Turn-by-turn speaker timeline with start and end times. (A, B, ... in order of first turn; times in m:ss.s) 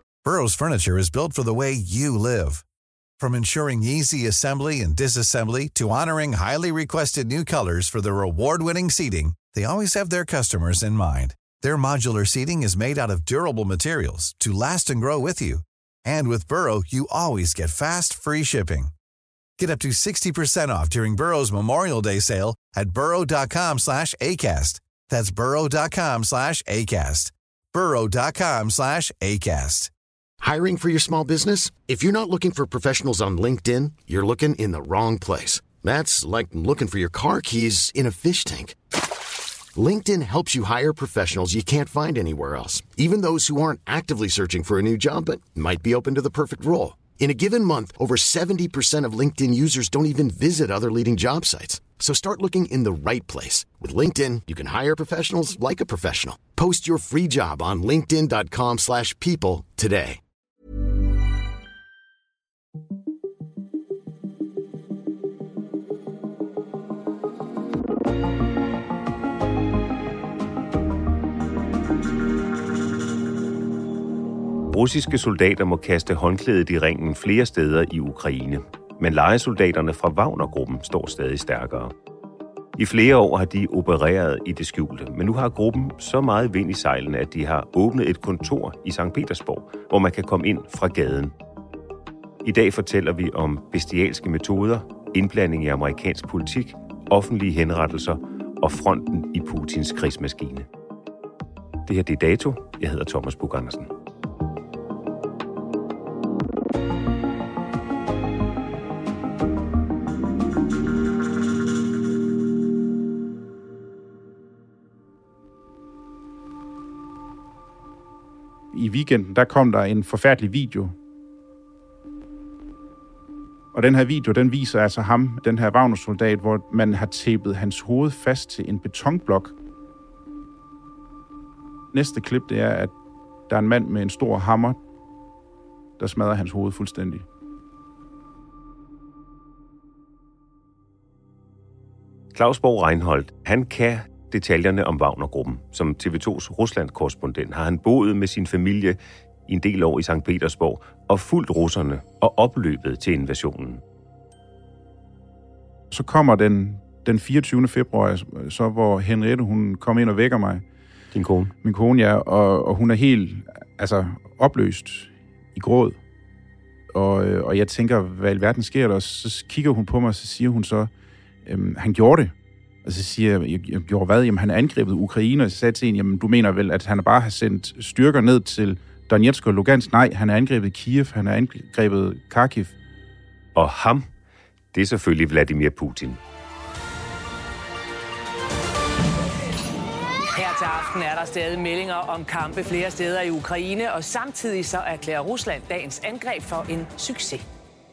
0:00.2-0:02.6 A
0:03.2-0:18.9 A
0:19.6-0:29.9 A
0:30.4-0:38.8 B
0:39.8-1:00.2 B
1:14.7-1:21.9 C
1:22.8-1:31.3 C
1:32.4-1:40.7 C
1:41.9-1:43.9 C
1:58.7-2:01.0 D
2:03.7-2:09.5 D
2:11.9-2:12.9 D
2:13.5-2:14.8 D
2:16.0-2:17.2 D
2:22.3-2:33.8 C
2:35.9-2:40.6 D
2:41.1-2:41.5 C
2:41.6-2:46.0 D
2:46.9-2:50.9 D
2:51.4-2:52.3 D
2:52.8-3:02.8 D
3:03.6-3:04.1 C
3:04.7-3:06.2 C
3:10.3-3:17.5 E